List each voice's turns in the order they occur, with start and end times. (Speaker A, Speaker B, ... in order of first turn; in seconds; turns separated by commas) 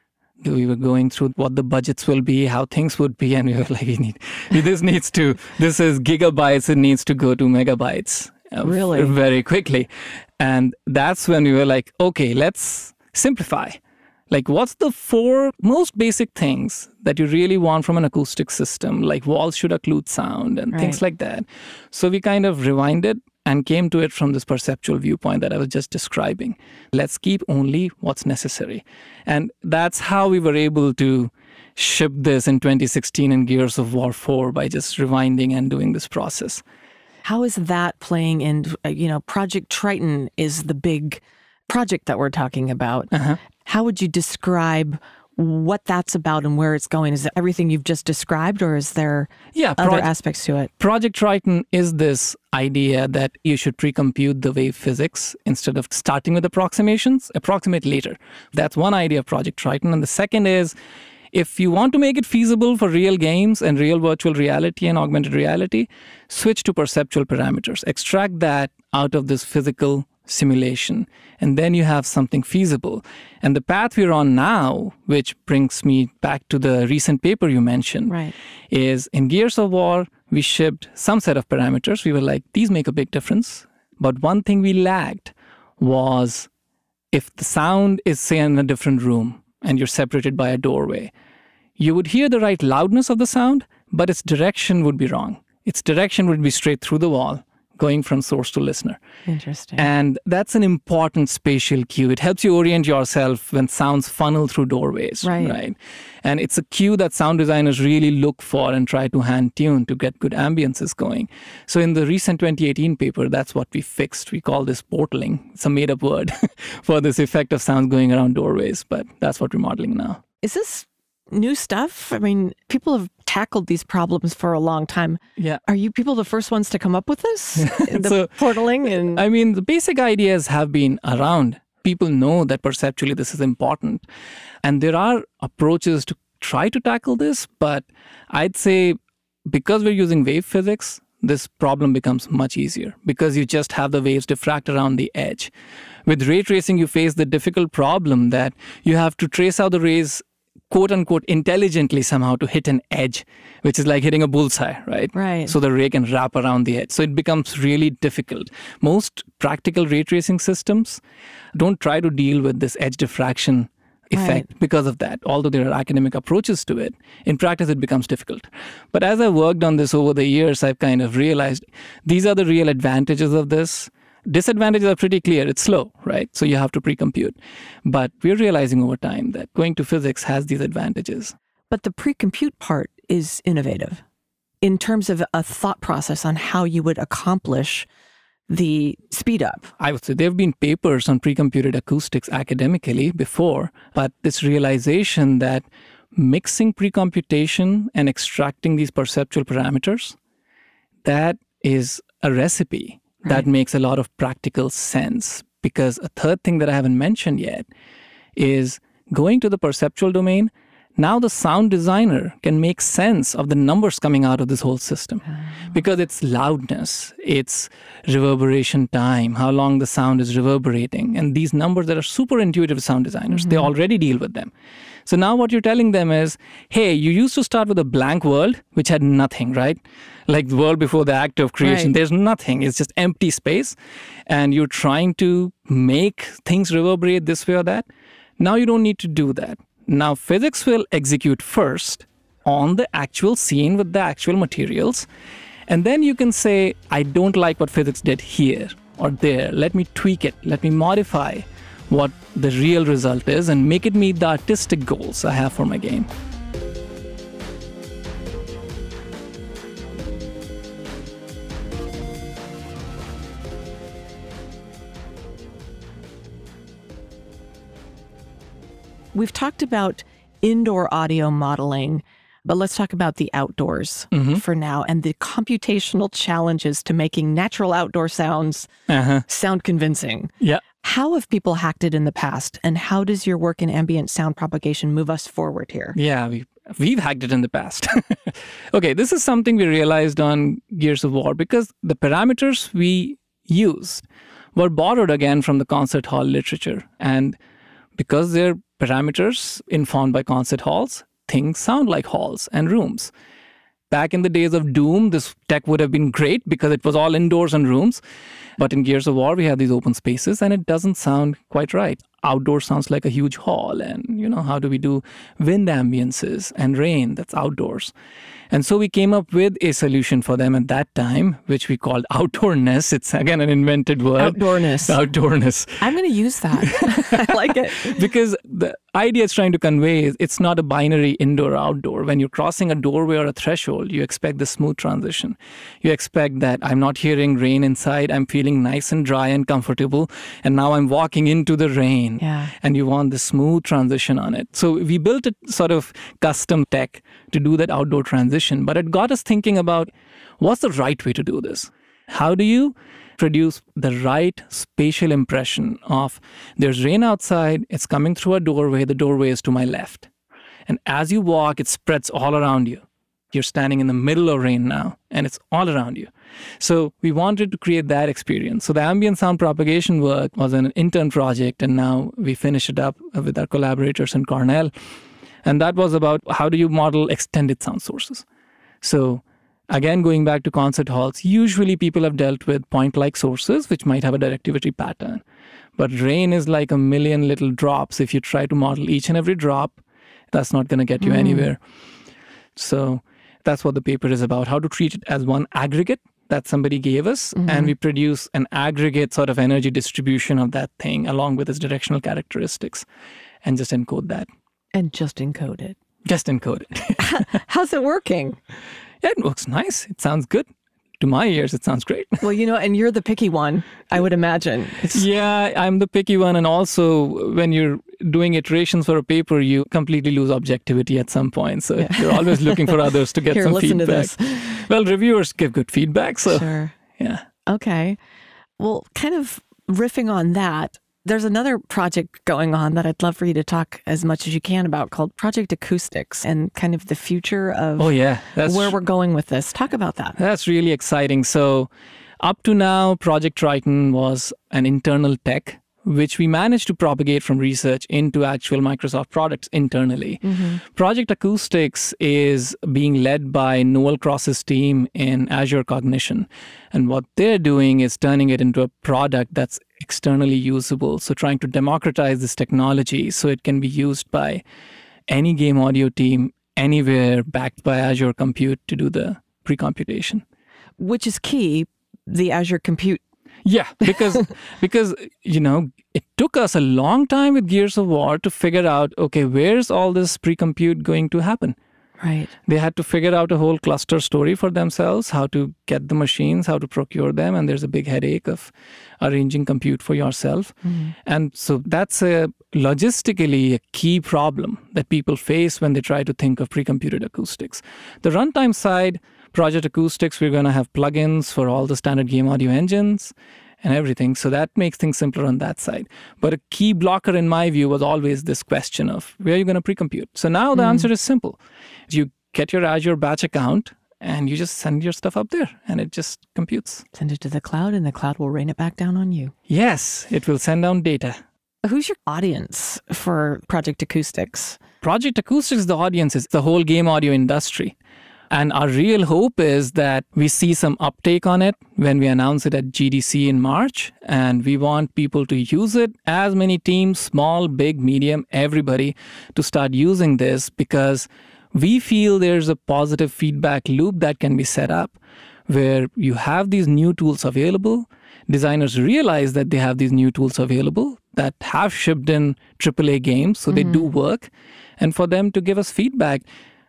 Speaker A: 0.4-13.8, Speaker B: 8.6-9.1, Speaker A: 14.3-36.6, Speaker B: 20.7-21.0, Speaker B: 37.2-50.7, Speaker A: 43.1-43.4, Speaker A: 49.5-50.1, Speaker A: 50.8-60.7, Speaker A: 61.3-78.2, Speaker B: 78.1-78.3, Speaker A: 78.7-86.5, Speaker A: 87.1-91.1, Speaker A: 91.8-99.0, Speaker B: 99.3-99.9, Speaker A: 99.8-120.2, Speaker B: 105.2-105.5, Speaker B: 120.4-129.2, Speaker A: 125.4-125.6, Speaker A: 127.6-128.4, Speaker A: 129.0-134.0, Speaker A: 134.6-145.5, Speaker A: 146.1-161.0, Speaker B: 155.1-155.5, Speaker A: 161.5-181.3, Speaker B: 164.1-164.4, Speaker B: 181.7-184.0, Speaker B: 184.6-187.9, Speaker B: 188.5-189.7, Speaker A: 189.8-200.2, Speaker A: 201.0-207.7, Speaker A: 208.3-224.5, Speaker B: 223.3-223.7, Speaker A: 225.1-233.7, Speaker B: 231.6-231.9, Speaker A: 234.3-237.9, Speaker A: 238.4-245.1, Speaker A: 245.7-256.1, Speaker B: 269.1-278.7, Speaker A: 274.1-274.4, Speaker A: 278.9-279.2, Speaker B: 279.3-286.0, Speaker A: 285.9-297.4, Speaker A: 298.0-303.1, Speaker A: 303.9-308.0, Speaker A: 308.6-317.9, Speaker A: 318.5-325.9, Speaker B: 324.2-325.0, Speaker B: 325.8-328.0, Speaker A: 326.6-360.1, Speaker B: 342.2-342.5, Speaker A: 360.7-374.7, Speaker A: 375.4-378.2, Speaker A: 378.8-385.2, Speaker A: 385.8-389.8, Speaker A: 390.3-391.6, Speaker B: 391.0-391.5, Speaker A: 392.6-402.9, Speaker B: 397.4-397.7, Speaker A: 403.4-404.3, Speaker B: 404.7-405.8, Speaker A: 406.1-407.2, Speaker B: 407.0-408.4, Speaker A: 409.0-410.5, Speaker A: 411.0-412.2, Speaker B: 412.2-415.0, Speaker A: 414.9-427.2, Speaker B: 421.8-424.6, Speaker B: 426.3-426.7, Speaker B: 427.4-428.0, Speaker B: 428.6-437.9, Speaker A: 437.8-438.8, Speaker B: 438.4-440.2, Speaker A: 440.2-441.7, Speaker A: 442.2-464.4, Speaker B: 450.2-450.6, Speaker A: 465.1-470.2, Speaker B: 470.8-473.0, Speaker A: 473.4-481.6, Speaker B: 482.0-482.3, Speaker A: 482.4-516.8, Speaker B: 490.6-490.9, Speaker B: 510.5-510.9, Speaker B: 516.9-519.3, Speaker A: 519.5-521.2, Speaker B: 521.6-524.6, Speaker A: 524.8-527.8, Speaker A: 528.3-556.2, Speaker B: 553.5-553.9